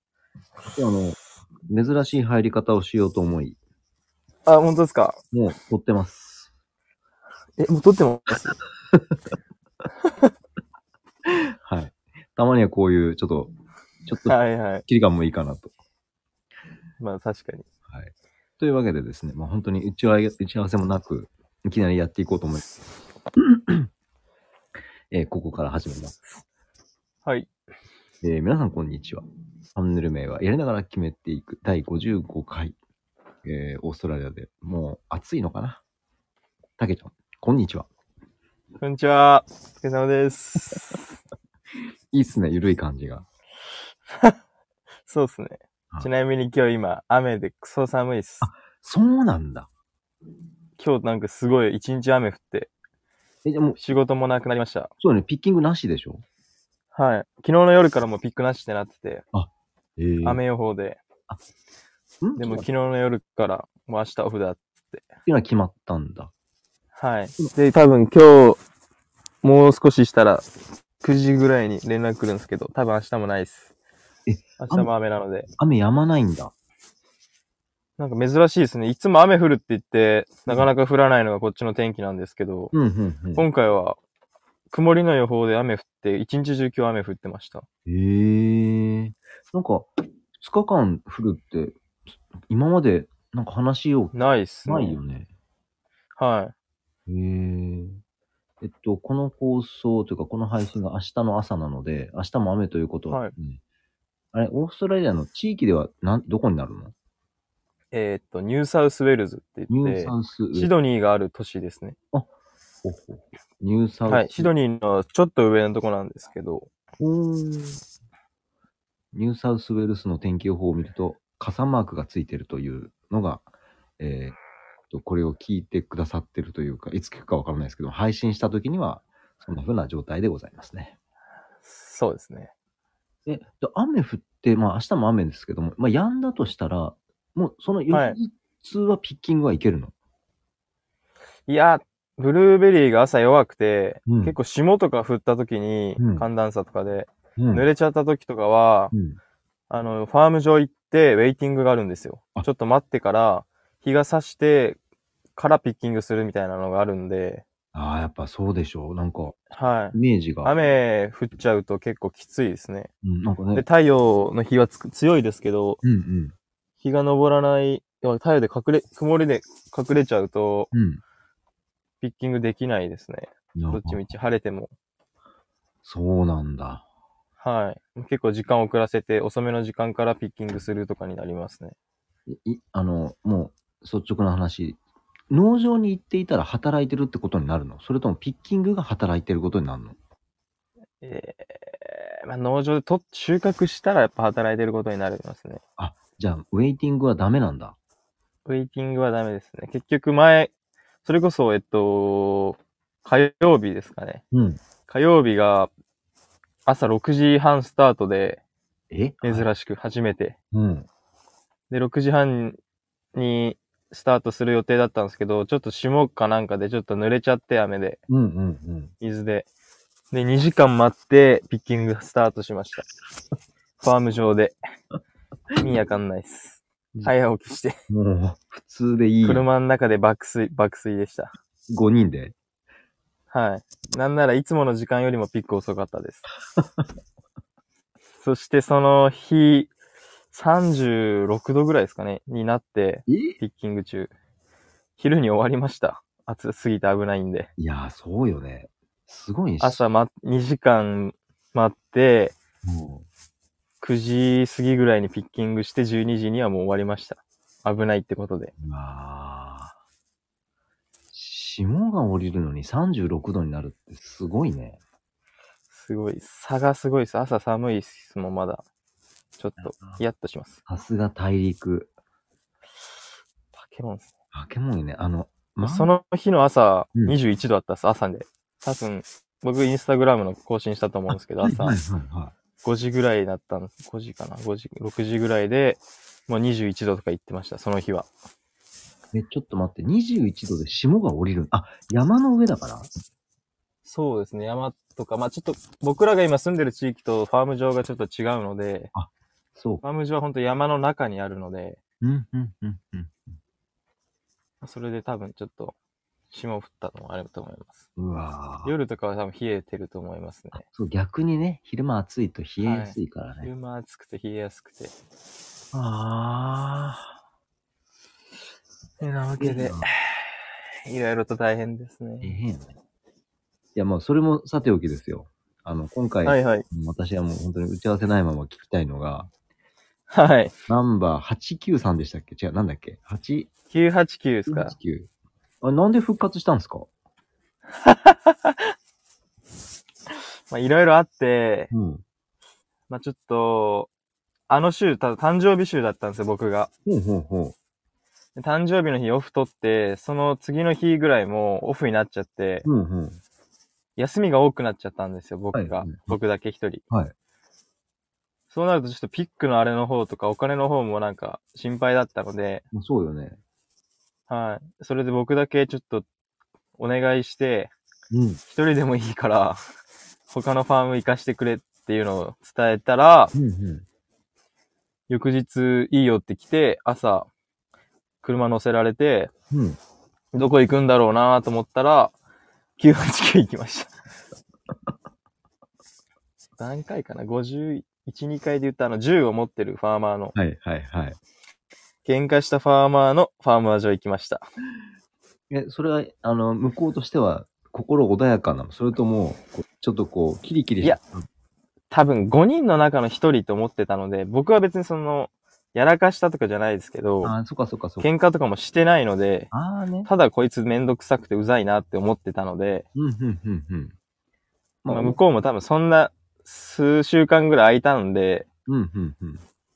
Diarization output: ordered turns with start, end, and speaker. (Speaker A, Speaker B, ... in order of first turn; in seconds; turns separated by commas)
Speaker A: 0.7-1.2, Speaker A: 1.7-3.6, Speaker B: 4.5-5.2, Speaker A: 5.3-6.4, Speaker B: 7.6-8.6, Speaker B: 10.0-10.3, Speaker A: 11.3-13.5, Speaker A: 14.1-15.7, Speaker B: 14.2-14.8, Speaker B: 17.0-17.6, Speaker A: 17.9-22.6, Speaker A: 23.4-23.9, Speaker A: 25.1-26.2, Speaker B: 27.2-27.5, Speaker A: 28.2-29.2, Speaker A: 29.7-32.8, Speaker A: 33.4-35.8, Speaker A: 36.8-37.9, Speaker B: 38.8-41.0, Speaker A: 42.1-43.2, Speaker B: 45.0-48.5, Speaker A: 48.4-49.7, Speaker B: 50.8-52.7, Speaker A: 53.4-53.8, Speaker B: 53.8-54.9, Speaker A: 55.0-56.2, Speaker B: 56.9-59.2, Speaker A: 59.3-60.4, Speaker B: 60.2-61.0, Speaker A: 62.2-62.7, Speaker B: 62.4-65.0, Speaker A: 65.2-66.3, Speaker B: 67.0-68.6, Speaker B: 69.4-70.5, Speaker B: 71.0-73.7, Speaker A: 74.3-74.9, Speaker B: 74.6-75.5, Speaker A: 75.6-76.5, Speaker B: 78.0-82.7, Speaker A: 82.7-83.5, Speaker B: 83.3-84.0, Speaker B: 84.7-87.7, Speaker A: 87.8-91.8, Speaker A: 92.5-94.1, Speaker B: 94.1-95.0, Speaker A: 94.7-95.3, Speaker B: 96.2-96.5, Speaker A: 97.1-98.0, Speaker A: 98.6-103.6, Speaker B: 103.1-103.3, Speaker A: 104.3-106.9, Speaker B: 107.9-112.0, Speaker A: 109.7-110.7, Speaker A: 112.8-114.5, Speaker B: 114.1-116.7, Speaker A: 117.0-117.8, Speaker A: 119.1-123.4, Speaker A: 124.0-124.4, Speaker A: 124.9-130.9, Speaker B: 131.6-132.5, Speaker A: 133.2-139.9, Speaker B: 137.9-138.2, Speaker B: 141.5-148.9, Speaker A: 144.1-144.3, Speaker A: 146.0-146.2, Speaker A: 147.4-147.6, Speaker B: 149.7-154.8, Speaker B: 155.3-157.4, Speaker A: 157.7-160.5, Speaker B: 159.5-162.9, Speaker A: 163.0-163.7, Speaker B: 163.5-165.8, Speaker A: 165.8-166.3, Speaker B: 166.8-170.7, Speaker A: 170.7-171.0, Speaker B: 172.0-174.7, Speaker A: 173.6-174.0, Speaker A: 175.8-176.8, Speaker B: 177.4-181.8, Speaker A: 182.3-184.8, Speaker A: 185.3-189.9, Speaker B: 191.0-195.6, Speaker A: 195.8-197.8, Speaker B: 198.4-200.5, Speaker B: 201.0-204.2, Speaker A: 204.3-204.6, Speaker B: 204.9-205.7, Speaker B: 206.7-208.4, Speaker A: 208.9-209.5, Speaker B: 209.2-210.3, Speaker A: 210.5-210.9, Speaker B: 211.7-212.6, Speaker B: 213.1-218.0, Speaker A: 218.1-218.9, Speaker B: 219.0-219.5, Speaker B: 220.1-222.8, Speaker B: 223.8-224.6, Speaker B: 225.6-227.8, Speaker A: 227.9-229.4, Speaker B: 229.2-231.3, Speaker A: 231.7-232.3, Speaker B: 233.3-236.3, Speaker A: 236.6-236.8, Speaker B: 238.2-239.7, Speaker B: 240.3-244.1, Speaker A: 243.1-243.4, Speaker B: 245.0-247.5, Speaker A: 247.6-249.9, Speaker B: 249.6-252.3, Speaker A: 252.6-253.1, Speaker B: 253.8-258.5, Speaker A: 258.6-259.7, Speaker A: 261.1-264.8, Speaker B: 265.7-268.6, Speaker B: 269.4-270.6, Speaker A: 269.6-270.0, Speaker A: 270.7-271.9, Speaker B: 273.6-274.1, Speaker A: 274.3-275.9, Speaker B: 275.6-281.8, Speaker A: 281.1-282.3, Speaker B: 282.6-288.1, Speaker A: 289.1-292.9, Speaker B: 293.8-298.9, Speaker A: 298.9-299.8, Speaker B: 299.8-301.8, Speaker A: 302.0-303.3, Speaker B: 304.6-305.7, Speaker B: 306.3-307.9, Speaker A: 308.0-308.7, Speaker B: 308.6-310.6, Speaker A: 310.5-313.5, Speaker B: 312.6-314.9, Speaker A: 315.7-317.1, Speaker B: 319.0-322.4, Speaker A: 319.4-319.9, Speaker A: 322.2-322.7, Speaker A: 323.7-329.3, Speaker B: 326.2-326.6, Speaker B: 330.1-330.5, Speaker A: 330.7-333.5, Speaker B: 333.7-334.7, Speaker A: 334.5-335.1, Speaker A: 335.6-336.9, Speaker B: 337.8-338.7, Speaker B: 340.5-341.7, Speaker A: 341.7-342.0, Speaker B: 342.9-343.9, Speaker B: 344.5-346.7, Speaker A: 346.9-347.5, Speaker B: 348.4-352.7, Speaker A: 352.6-353.2, Speaker B: 354.0-356.8, Speaker A: 355.5-356.2, Speaker B: 358.5-362.6, Speaker A: 362.7-363.4, Speaker B: 364.3-366.1, Speaker B: 366.8-367.7, Speaker A: 368.1-368.4, Speaker B: 368.4-369.6, Speaker B: 370.3-373.3, Speaker A: 373.3-373.8, Speaker B: 375.1-377.3, Speaker B: 378.2-379.3, Speaker A: 379.5-379.8, Speaker B: 380.3-382.1, Speaker B: 382.8-383.9, Speaker B: 386.6-390.4, Speaker A: 390.4-391.2, Speaker B: 392.0-394.4, Speaker A: 395.5-401.2, Speaker B: 401.9-407.3, Speaker A: 407.2-408.1, Speaker B: 408.0-409.5, Speaker A: 409.5-410.1, Speaker B: 410.0-412.9, Speaker A: 412.9-413.9, Speaker A: 414.8-415.2, Speaker B: 414.9-418.5, Speaker A: 418.7-419.4